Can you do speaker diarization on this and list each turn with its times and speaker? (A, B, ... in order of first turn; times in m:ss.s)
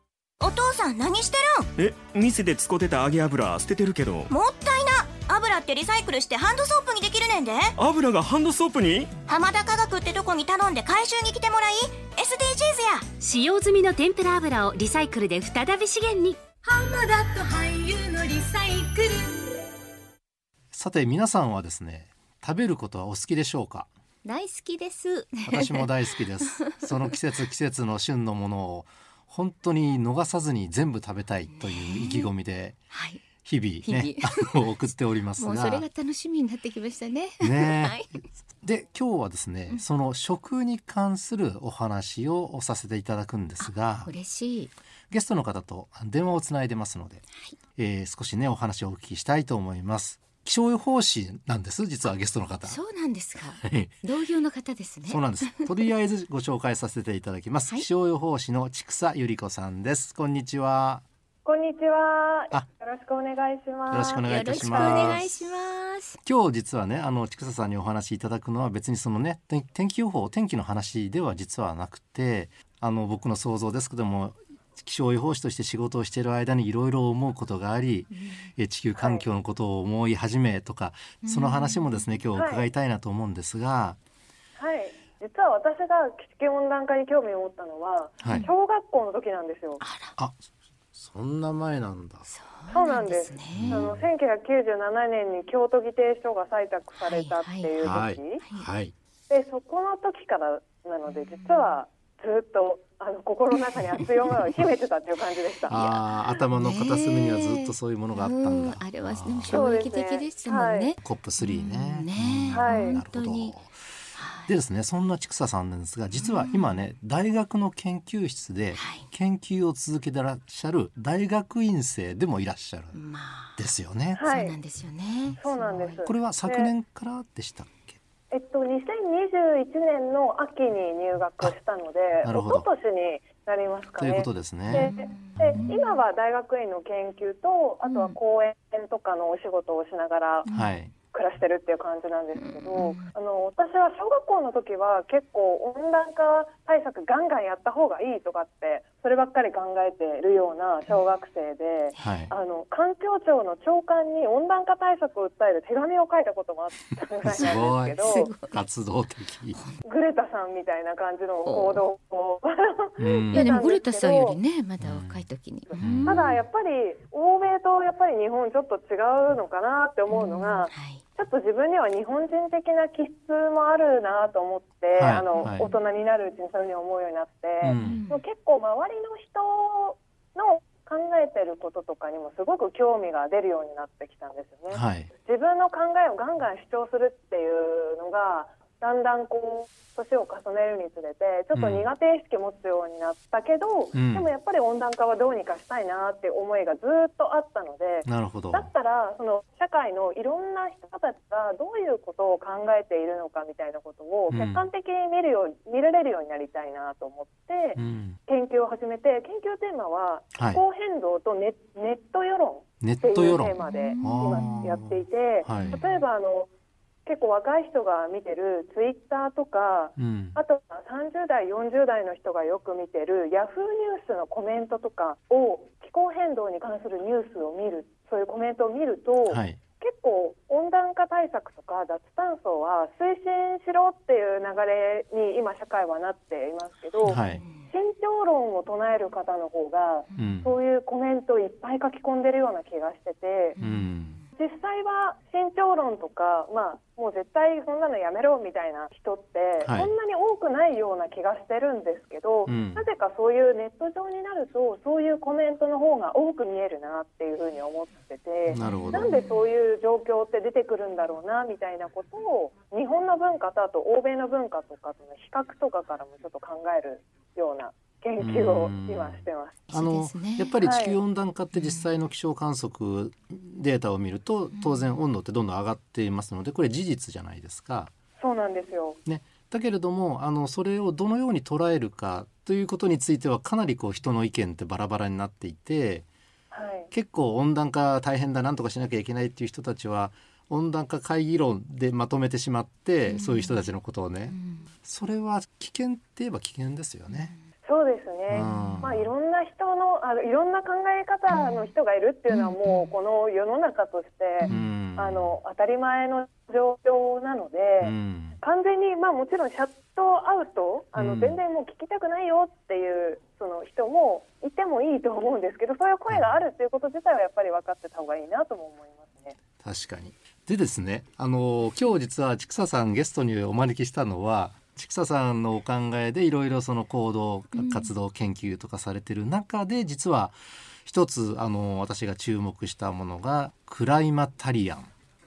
0:00.4-0:01.7 A
0:01.8-0:04.3 B
0:04.3-0:07.7 A
0:07.8-0:09.1 B
0:09.3-0:13.1 A
0:13.2-0:16.4 C
0:16.6-0:19.5 D
0:20.7-0:23.9 E
0:24.2-0:25.9 F
0:25.4-0:32.8 E
0:26.6-0:26.9 F
0:31.5-0:32.3 F
0:32.9-0:33.2 F
0:33.4-0:35.9 E
0:33.8-0:34.5 F
0:35.4-0:38.2 F
0:37.4-0:38.0 E
0:38.6-0:44.1 E
0:43.6-0:44.7 F
0:45.1-0:47.2 E
0:47.8-0:52.8 E
0:52.6-0:55.5 F
0:53.6-0:53.9 E
0:55.1-1:01.0 E
1:01.4-1:05.2 G
1:03.9-1:05.4 E
1:04.2-1:06.2 F
1:06.2-1:24.0 E
1:19.0-1:19.2 G
1:21.2-1:22.0 F
1:22.4-1:22.7 G
1:24.6-1:29.8 G
1:29.8-1:30.1 F
1:31.0-1:32.3 E
1:32.3-1:33.9 F
1:32.7-1:38.4 G
1:33.5-1:34.0 E
1:37.0-1:37.8 F
1:37.8-1:38.9 E
1:38.4-1:38.7 F
1:39.3-1:45.7 G
1:41.2-1:41.8 F
1:43.5-1:44.3 F
1:45.7-1:49.7 E
1:45.7-1:53.6 F
1:49.5-1:50.9 G
1:51.0-1:53.7 E
1:52.5-1:53.0 G
1:54.2-1:54.5 F
1:54.5-2:03.0 E
1:56.2-1:56.8 F
1:58.7-1:59.1 F
2:02.9-2:03.7 F
2:03.6-2:04.2 E
2:04.2-2:04.6 G
2:04.2-2:06.0 F
2:05.4-2:06.7 G
2:06.0-2:08.0 E
2:08.3-2:20.5 G
2:12.2-2:12.7 E
2:14.0-2:14.9 E
2:14.7-2:16.0 F
2:15.4-2:15.7 E
2:17.9-2:18.2 F
2:20.5-2:20.7 F
2:20.5-2:20.9 E
2:21.1-2:38.3 G
2:22.4-2:23.0 F
2:32.0-2:32.3 E
2:37.2-2:39.6 E
2:37.3-2:38.6 F
2:39.8-2:44.4 G
2:41.5-2:41.8 F
2:43.0-2:43.5 E
2:43.3-2:46.4 F
2:44.8-2:46.2 E
2:46.0-3:36.5 G
2:50.1-2:51.0 F
2:55.0-2:55.7 E
2:57.6-2:58.0 E
2:57.8-2:58.2 F
3:04.7-3:05.1 E
3:11.5-3:11.9 E
3:13.9-3:14.3 E
3:18.0-3:18.7 E
3:24.3-3:24.7 E
3:27.8-3:28.2 E
3:30.4-3:30.6 E
3:32.8-3:35.8 E
3:33.6-3:34.7 F
3:35.5-3:36.0 F
3:37.1-4:03.6 G
3:40.0-3:40.4 E
3:49.3-3:49.6 E
3:57.0-3:57.4 E
3:57.1-3:57.7 F
4:00.2-4:00.6 E
4:03.6-4:04.3 F
4:03.6-4:04.2 E
4:04.4-4:29.6 G
4:09.6-4:09.9 E
4:12.5-4:12.8 E
4:18.5-4:19.1 E
4:18.6-4:19.5 F
4:28.2-4:37.9 E
4:29.7-4:30.5 F
4:30.6-4:31.0 G
4:31.5-4:31.8 F
4:34.6-4:34.8 F
4:38.2-4:39.0 G
4:39.1-4:46.1 E
4:46.5-4:46.9 G
4:46.9-4:57.3 E
4:53.1-4:53.7 F
4:54.3-4:54.7 F
4:57.1-4:57.4 F
4:57.7-5:19.4 G
4:58.3-4:59.1 E
4:58.4-4:58.8 F
5:01.3-5:01.7 F
5:02.3-5:02.9 F
5:04.5-5:05.4 E
5:07.8-5:08.4 E
5:11.0-5:11.4 E
5:16.1-5:16.4 E
5:19.6-5:34.9 E
5:27.6-5:27.9 F